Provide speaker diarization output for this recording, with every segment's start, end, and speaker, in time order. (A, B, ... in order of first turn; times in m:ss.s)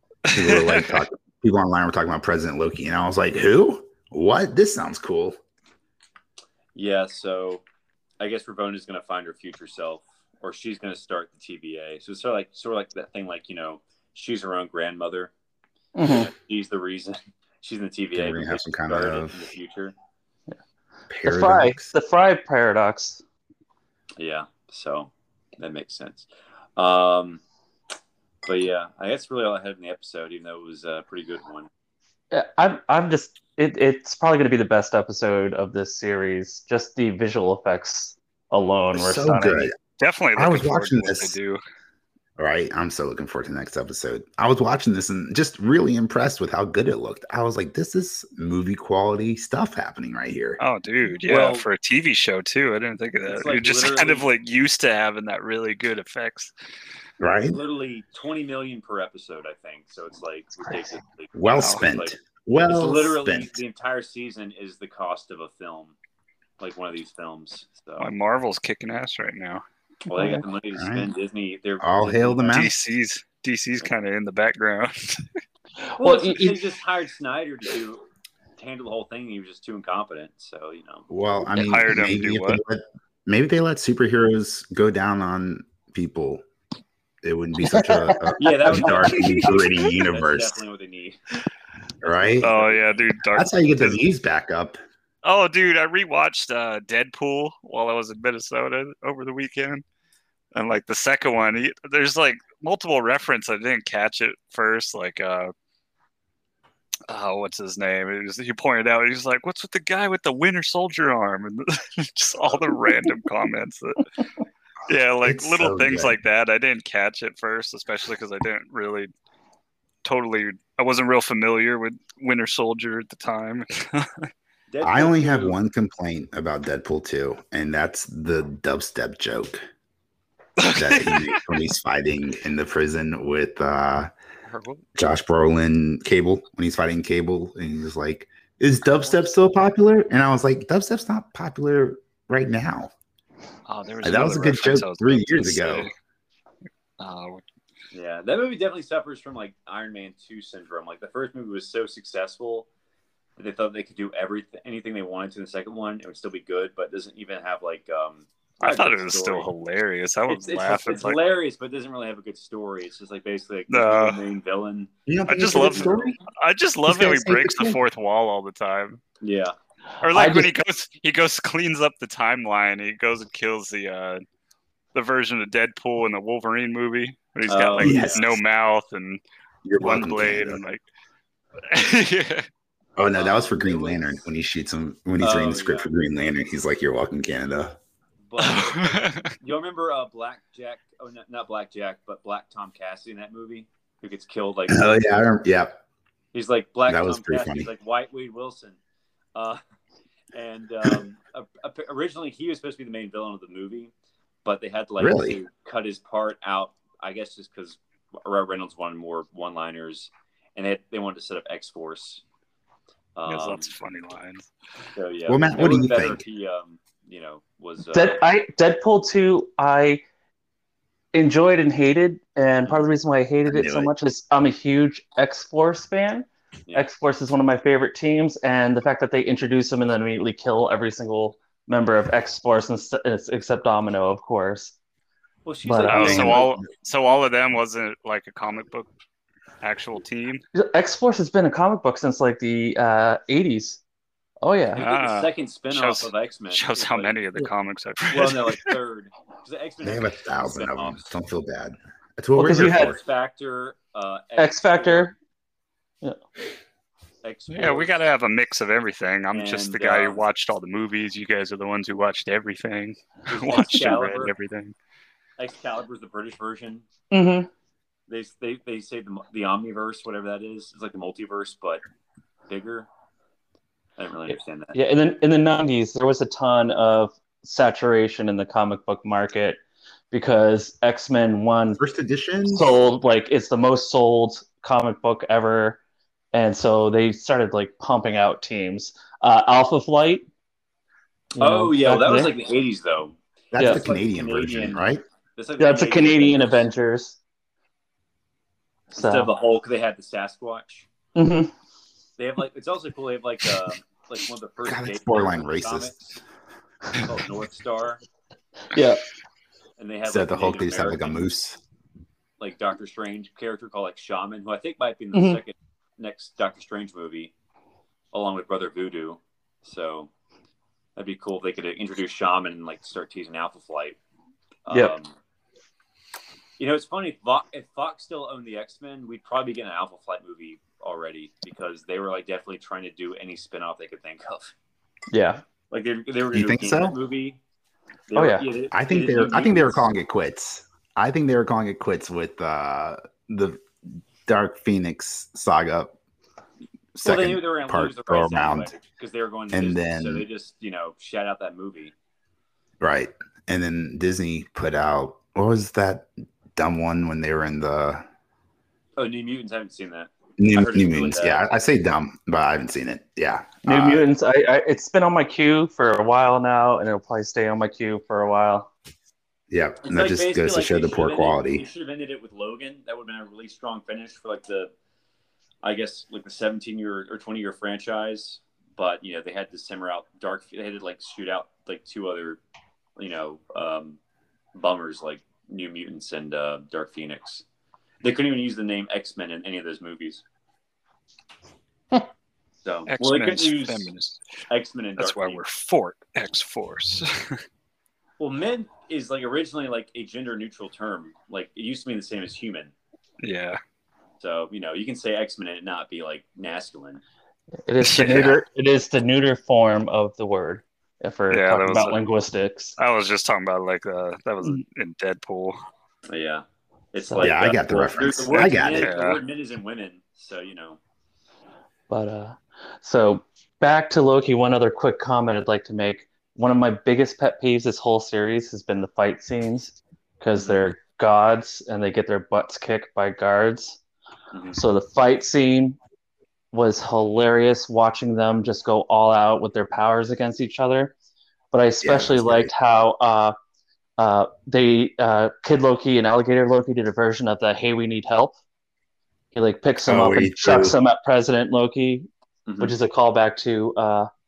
0:00.3-0:01.0 A
0:00.3-0:05.4 B
0:06.8-0:07.6 C
0:08.2-0:15.3 C
0:16.0-0:16.3 D
0:16.0-0:19.9 C
0:18.1-0:19.4 B
0:21.1-0:21.9 B
0:21.2-0:23.2 D
0:24.2-0:27.4 C
0:28.5-0:31.7 C
0:32.3-0:39.7 D
0:38.9-0:39.8 B
0:40.0-0:41.6 A
0:40.4-0:41.4 B
0:42.4-0:50.6 B
0:50.6-0:56.5 A
0:51.3-0:51.7 C
0:53.3-0:54.3 C
0:57.2-0:57.6 B
0:57.5-1:06.0 C
1:01.4-1:03.6 B
1:01.6-1:01.8 A
1:06.6-1:08.1 C
1:08.0-1:09.6 A
1:10.1-1:12.7 C
1:10.1-1:10.4 D
1:10.8-1:11.1 B
1:11.8-1:12.7 B
1:12.5-1:15.2 A
1:15.8-1:16.6 D
1:16.0-1:18.0 C
1:18.6-1:21.1 C
1:21.1-1:26.4 B
1:21.5-1:22.6 A
1:27.2-1:30.6 B
1:27.6-1:29.0 D
1:28.4-1:31.2 C
1:32.0-1:33.1 C
1:32.0-1:32.5 B
1:32.4-1:34.0 A
1:33.3-1:34.8 B
1:35.2-1:39.8 A
1:40.5-1:45.5 A
1:47.1-1:54.1 A
1:54.9-1:59.1 A
1:55.2-1:56.2 B
2:00.0-2:04.3 A
2:04.7-2:05.6 C
2:04.8-2:09.6 B
2:10.6-2:11.4 A
2:10.7-2:14.1 B
2:14.5-2:14.8 A
2:15.0-2:22.9 B
2:23.7-2:25.9 A
2:24.0-2:25.9 B
2:27.0-2:27.4 A
2:27.9-2:32.7 C
2:33.4-2:39.5 C
2:38.6-2:41.2 A
2:40.3-2:44.9 C
2:43.7-2:44.2 A
2:45.1-2:46.2 B
2:45.3-2:49.0 A
2:45.5-2:45.9 C
2:46.9-2:47.8 B
2:49.2-2:49.6 C
2:50.0-2:54.2 A
2:50.1-2:50.5 D
2:54.9-2:59.2 A
2:57.5-2:58.2 C
2:57.8-2:58.4 B
2:59.6-3:00.6 B
2:59.8-3:00.8 A
3:01.7-3:02.5 A
3:03.0-3:07.8 B
3:03.2-3:04.1 C
3:05.2-3:05.9 C
3:08.3-3:15.0 C
3:08.4-3:09.3 A
3:14.7-3:15.8 B
3:16.3-3:18.8 C
3:16.9-3:17.7 B
3:19.4-3:19.6 C
3:20.3-3:23.9 C
3:24.4-3:32.2 C
3:25.0-3:25.4 B
3:33.2-3:33.7 C
3:33.3-3:34.5 A
3:35.0-3:38.3 C
3:35.3-3:36.2 B
3:37.9-3:40.0 D
3:41.1-3:54.8 D
3:43.5-3:43.9 B
3:55.4-3:56.6 C
3:55.6-3:56.4 D
3:55.9-3:58.9 A
3:56.0-3:56.4 B
3:59.6-4:00.4 A
4:00.6-4:03.8 D
4:04.4-4:04.8 D
4:04.8-4:07.2 C
4:04.8-4:08.7 A
4:08.1-4:11.0 C
4:09.8-4:13.0 B
4:12.4-4:13.0 D
4:12.6-4:15.1 C
4:14.4-4:15.2 D
4:17.2-4:18.0 C
4:17.5-4:24.8 A
4:19.3-4:20.2 C
4:23.3-4:24.3 C
4:25.4-4:26.9 C
4:27.1-4:27.5 D
4:28.1-4:31.8 C
4:32.5-4:32.9 C
4:34.0-4:34.8 C
4:34.7-4:39.6 D
4:40.1-4:41.8 D
4:41.8-4:42.7 B
4:42.5-4:45.8 D
4:46.3-4:50.3 D
4:51.4-4:52.3 D
4:51.4-4:56.6 C
4:53.5-4:55.0 B
4:53.6-4:53.8 D
4:55.6-4:57.2 D
4:58.9-4:59.3 D
4:58.9-5:00.9 C
5:01.2-5:01.5 D
5:02.2-5:06.2 C
5:04.6-5:06.0 B
5:07.0-5:08.0 C
5:08.7-5:09.0 D
5:09.8-5:11.2 C
5:10.1-5:11.6 B
5:12.4-5:17.3 C
5:15.1-5:15.4 D
5:18.1-5:20.1 C
5:21.0-5:24.0 C
5:24.7-5:25.2 C
5:24.7-5:25.0 D
5:26.6-5:34.5 C
5:35.1-5:35.4 D
5:35.7-5:37.4 C
5:36.3-5:37.0 B
5:38.1-5:39.8 C
5:38.1-5:38.4 D
5:38.7-5:43.6 B
5:44.2-5:46.0 B
5:47.0-5:48.7 B
5:47.0-5:51.9 C
5:49.5-5:50.3 B
5:52.8-5:58.0 B
5:59.0-6:01.5 C
6:00.4-6:04.1 B
6:03.6-6:08.7 D
6:09.5-6:11.7 B
6:09.8-6:14.7 C
6:15.6-6:22.4 C
6:23.0-6:24.0 C
6:24.5-6:27.4 C
6:28.0-6:30.2 C
6:32.6-6:33.9 C
6:32.9-6:34.2 A
6:34.5-6:35.4 C
6:35.0-6:37.4 A
6:38.2-6:42.7 C
6:43.2-6:43.6 A
6:44.2-6:47.0 C
6:47.7-6:52.8 D
6:47.8-6:48.3 A
6:48.1-6:48.4 B
6:51.3-6:52.0 A
6:52.8-6:55.6 A
6:56.1-7:00.8 C
6:57.1-6:57.4 D
6:57.2-6:58.9 B
6:58.8-6:59.2 A
7:01.9-7:13.8 D
7:10.4-7:10.7 C
7:14.3-7:14.6 C
7:14.6-7:15.8 D
7:16.5-7:21.0 D
7:21.5-7:23.4 D
7:21.8-7:22.5 B
7:24.0-7:28.4 D
7:29.3-7:32.1 D
7:29.9-7:30.8 B
7:32.5-7:32.7 C
7:32.6-7:34.1 D